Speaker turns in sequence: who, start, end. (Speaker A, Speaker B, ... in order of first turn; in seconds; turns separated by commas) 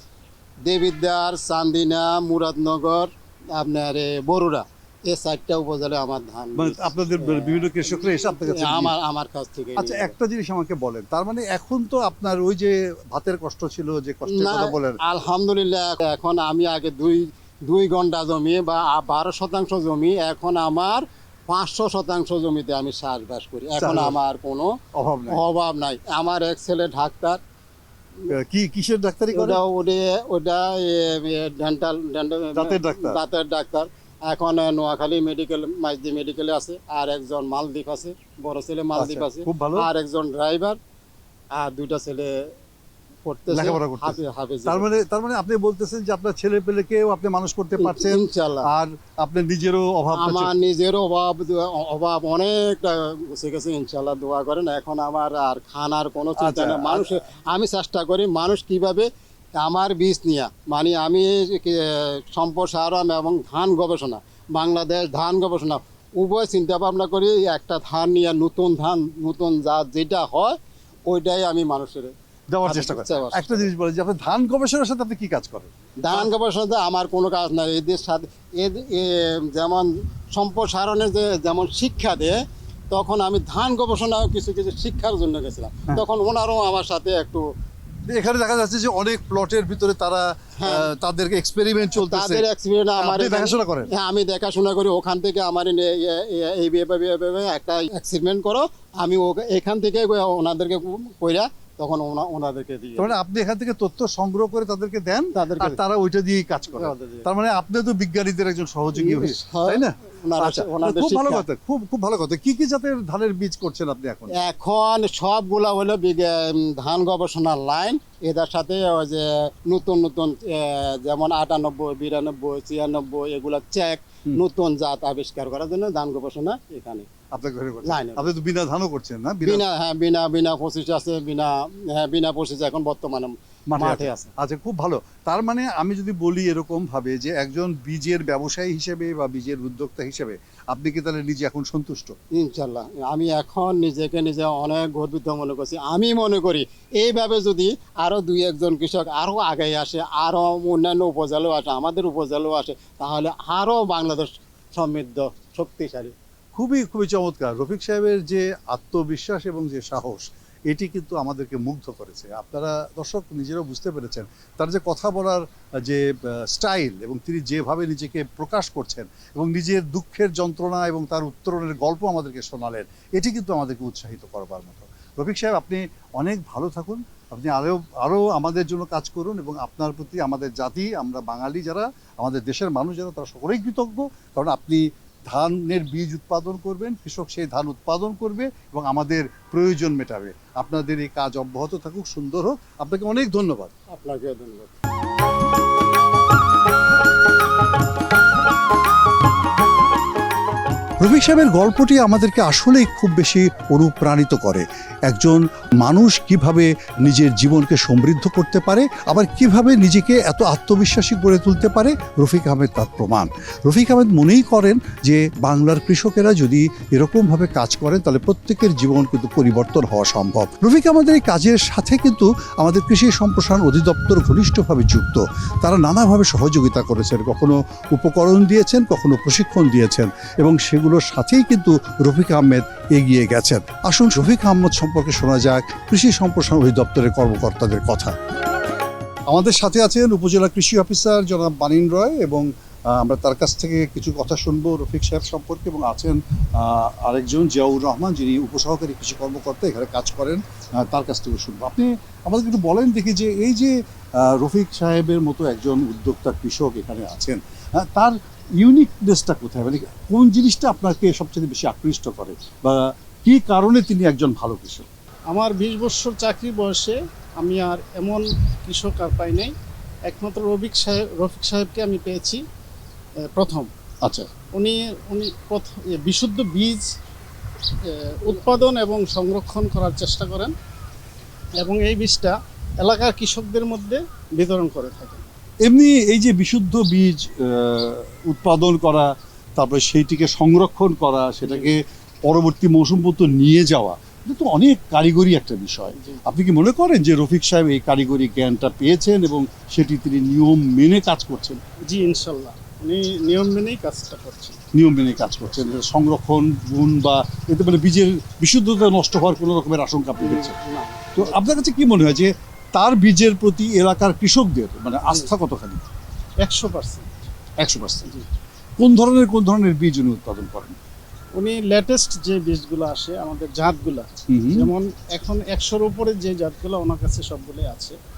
Speaker A: 0.7-10.2, Speaker B: 6.5-8.9, Speaker B: 9.8-15.0, Speaker A: 14.3-24.7, Speaker B: 23.8-24.2, Speaker B: 24.9-25.4, Speaker A: 25.3-27.4, Speaker B: 28.3-29.6, Speaker A: 29.3-40.8, Speaker B: 32.5-33.2, Speaker B: 39.0-39.9, Speaker A: 41.5-42.4, Speaker A: 43.2-44.9, Speaker B: 43.5-50.5, Speaker A: 47.8-48.7, Speaker A: 50.1-72.1, Speaker B: 56.4-57.1, Speaker B: 72.5-76.3, Speaker A: 72.6-73.7, Speaker A: 76.0-82.4, Speaker A: 82.9-87.5, Speaker B: 88.1-92.4, Speaker A: 90.6-90.9, Speaker A: 92.0-103.2, Speaker B: 93.0-93.9, Speaker B: 103.0-114.3, Speaker A: 105.3-105.8, Speaker A: 106.7-107.3, Speaker A: 109.0-111.4, Speaker A: 114.4-127.1, Speaker B: 127.3-129.6, Speaker A: 127.8-128.3, Speaker A: 129.4-134.3, Speaker B: 133.7-142.2, Speaker A: 142.4-156.1, Speaker B: 156.6-193.7, Speaker A: 193.9-194.7, Speaker B: 201.0-238.1, Speaker B: 239.3-264.9, Speaker C: 265.3-269.5, Speaker C: 270.1-272.4, Speaker C: 273.3-273.7, Speaker B: 274.0-274.3, Speaker C: 274.6-276.9, Speaker C: 277.8-280.5, Speaker C: 281.6-285.3, Speaker B: 285.6-301.6, Speaker C: 291.5-291.7, Speaker C: 301.9-304.6, Speaker B: 304.7-310.6, Speaker C: 310.2-311.6, Speaker B: 311.2-315.8, Speaker C: 316.4-317.1, Speaker B: 317.6-318.1, Speaker B: 318.8-320.8, Speaker C: 321.4-328.0, Speaker B: 324.3-324.7